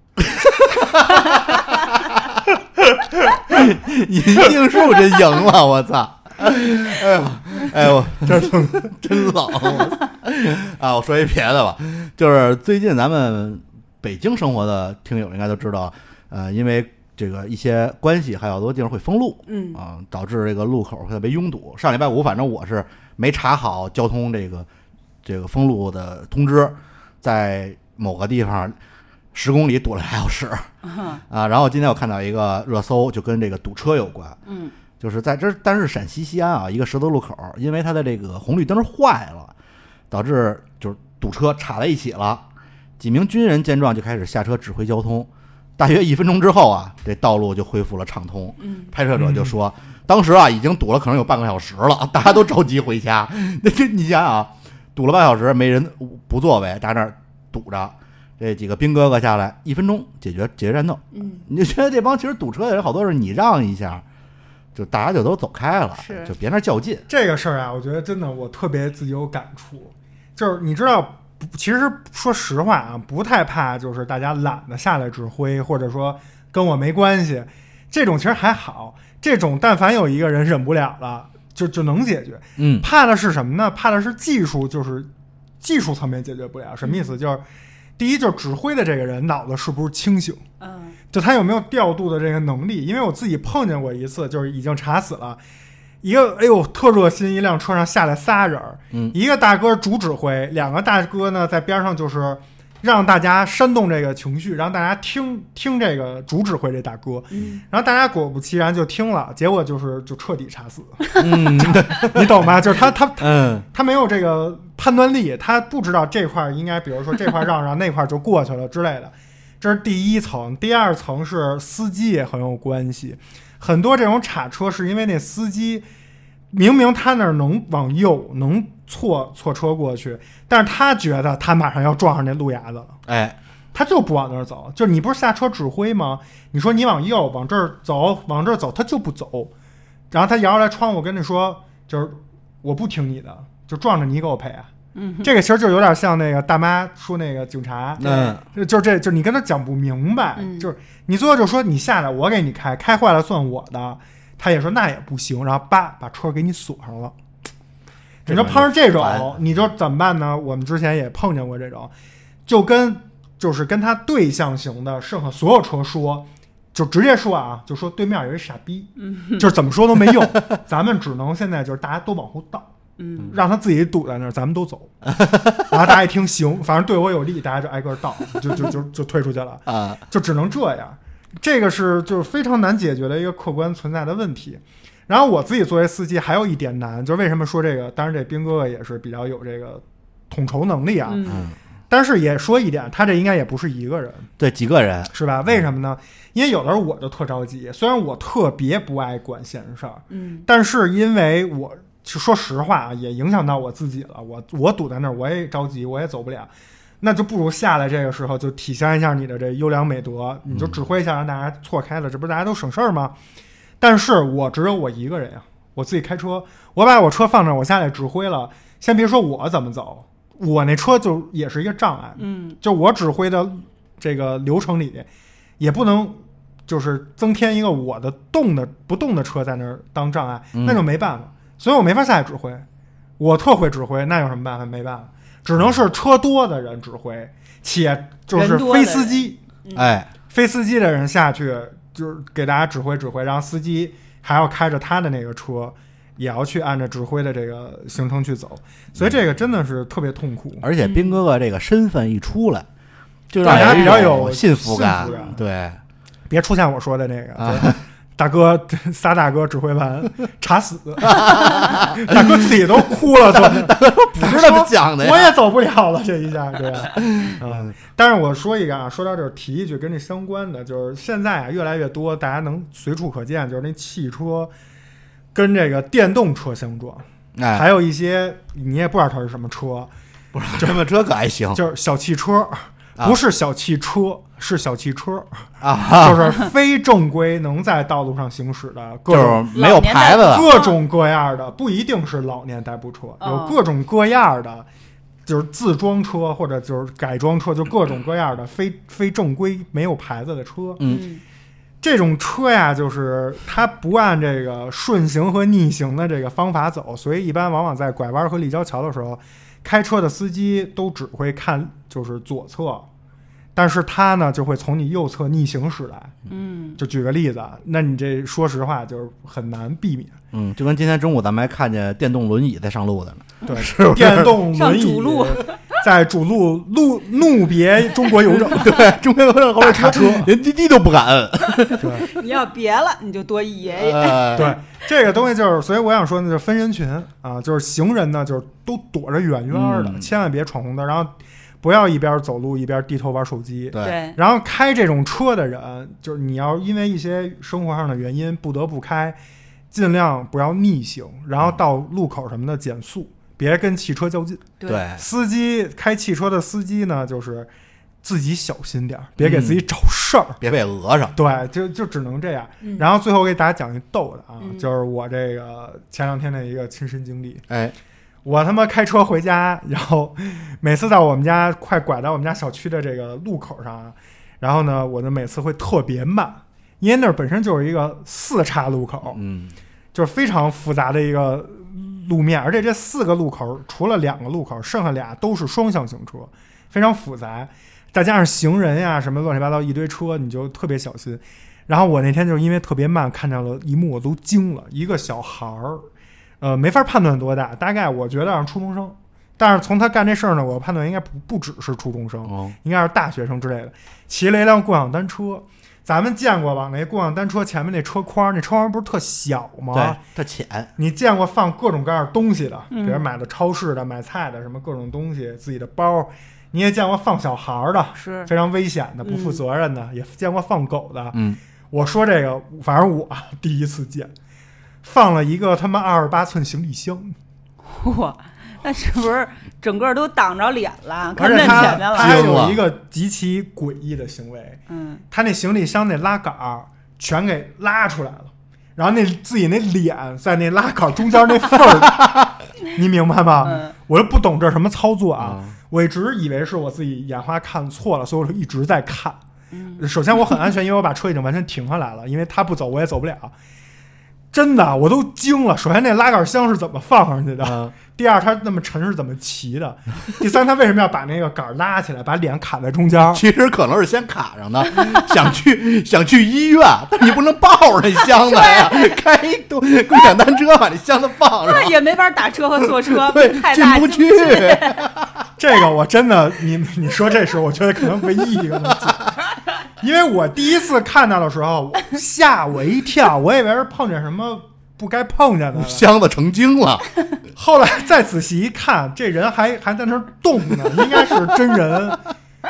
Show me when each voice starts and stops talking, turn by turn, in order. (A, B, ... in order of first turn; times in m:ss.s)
0:00.4-0:01.2 A
0:01.2-0:01.5 B
0:03.5-0:24.7 A
0:08.3-0:08.9 C
0:19.5-0:19.8 B
0:25.2-0:28.8 A
0:29.3-0:30.7 A
0:30.8-0:31.2 B
0:31.3-0:34.4 A
0:34.5-0:34.7 B
0:35.0-0:39.5 A
0:40.1-0:42.4 A
0:43.0-1:04.0 A
0:48.6-0:48.9 B
0:49.2-0:49.5 C
1:01.1-1:01.5 B
1:04.8-1:07.0 A
1:06.0-1:06.3 B
1:07.1-1:25.1 C
1:22.6-1:22.9 A
1:25.6-1:27.4 C
1:26.8-1:27.1 B
1:28.0-1:30.4 C
1:30.6-1:31.0 B
1:31.1-1:35.4 C
1:36.0-2:05.8 C
1:47.3-1:47.6 B
1:51.2-1:52.5 A
1:53.2-1:53.6 A
2:06.5-2:13.0 C
2:13.1-2:13.4 A
2:13.7-2:19.5 C
2:20.1-2:24.7 C
2:25.0-2:25.3 B
2:25.2-2:37.1 C
2:28.0-2:28.4 A
2:28.0-2:28.3 B
2:30.4-2:30.7 B
2:38.2-2:41.9 C
2:38.3-2:39.7 A
2:42.5-2:52.7 C
2:49.0-2:49.5 B
2:53.0-2:53.4 B
2:53.3-2:54.9 C
2:55.6-3:11.3 C
2:59.7-3:00.0 A
3:11.0-3:11.5 B
3:11.3-3:11.6 A
3:11.9-3:14.3 C
3:14.4-3:15.1 A
3:15.1-3:26.5 C
3:20.1-3:20.4 B
3:27.0-3:33.1 C
3:30.5-3:30.8 A
3:33.8-3:45.1 C
3:42.2-3:42.6 B
3:45.6-3:52.6 C
3:50.6-3:50.8 A
3:53.2-3:59.4 C
3:58.3-3:59.9 B
3:59.7-4:00.1 A
4:00.3-4:10.7 C
4:09.0-4:09.2 A
4:10.6-4:12.7 A
4:10.8-4:11.2 B
4:13.3-4:15.8 A
4:13.4-4:15.4 C
4:13.6-4:13.9 B
4:16.3-4:34.5 C
4:17.4-4:17.8 A
4:21.0-4:21.8 A
4:23.3-4:25.4 A
4:26.9-4:27.7 A
4:35.3-4:39.9 C
4:37.4-4:37.7 A
4:40.3-4:41.6 A
4:41.5-4:49.5 C
4:45.6-4:46.3 A
4:49.1-4:50.5 A
4:49.5-4:50.8 B
4:50.1-4:54.7 C
4:53.2-4:53.6 B
4:55.3-5:00.8 C
5:00.9-5:01.2 B
5:01.8-5:12.9 C
5:13.6-5:16.2 C
5:16.3-5:16.8 B
5:16.8-5:20.2 C
5:20.3-5:24.4 A
5:23.5-5:28.7 C
5:24.5-5:25.5 B
5:28.3-5:32.0 A
5:29.6-5:30.3 C
5:31.8-5:32.1 C
5:31.9-5:34.6 B
5:33.8-5:34.5 A
5:34.3-5:49.2 C
5:39.5-5:40.1 A
5:43.8-5:44.2 B
5:49.7-5:57.5 C
5:54.6-5:54.8 B
5:54.7-5:55.0 A
5:58.0-6:00.4 C
5:59.2-5:59.6 A
6:00.4-6:01.2 A
6:01.1-6:07.4 C
6:04.4-6:04.7 B
6:07.5-6:07.8 A
6:08.2-6:19.2 C
6:19.1-6:19.6 A
6:19.9-6:35.9 C
6:36.4-6:50.0 C
6:42.3-6:42.6 A
6:49.7-6:50.7 A
6:50.8-7:04.1 C
6:52.7-6:53.0 B
6:58.0-6:58.3 B
6:59.0-6:59.4 B
7:01.1-7:01.4 A
7:04.8-7:07.1 C
7:07.6-7:12.1 B
7:11.2-7:14.6 C
7:11.4-7:12.6 A
7:14.7-7:15.0 B
7:15.1-7:29.2 C
7:23.4-7:23.7 B
7:25.2-7:25.6 A
7:29.5-7:29.8 B
7:29.8-7:33.3 C
7:34.3-7:43.2 C
7:37.4-7:37.8 A
7:43.1-7:51.8 A
7:51.4-7:54.8 B
7:52.6-7:55.0 A
7:55.4-7:59.1 C
7:59.8-8:05.9 C
8:05.6-8:06.9 A
8:07.4-8:12.0 C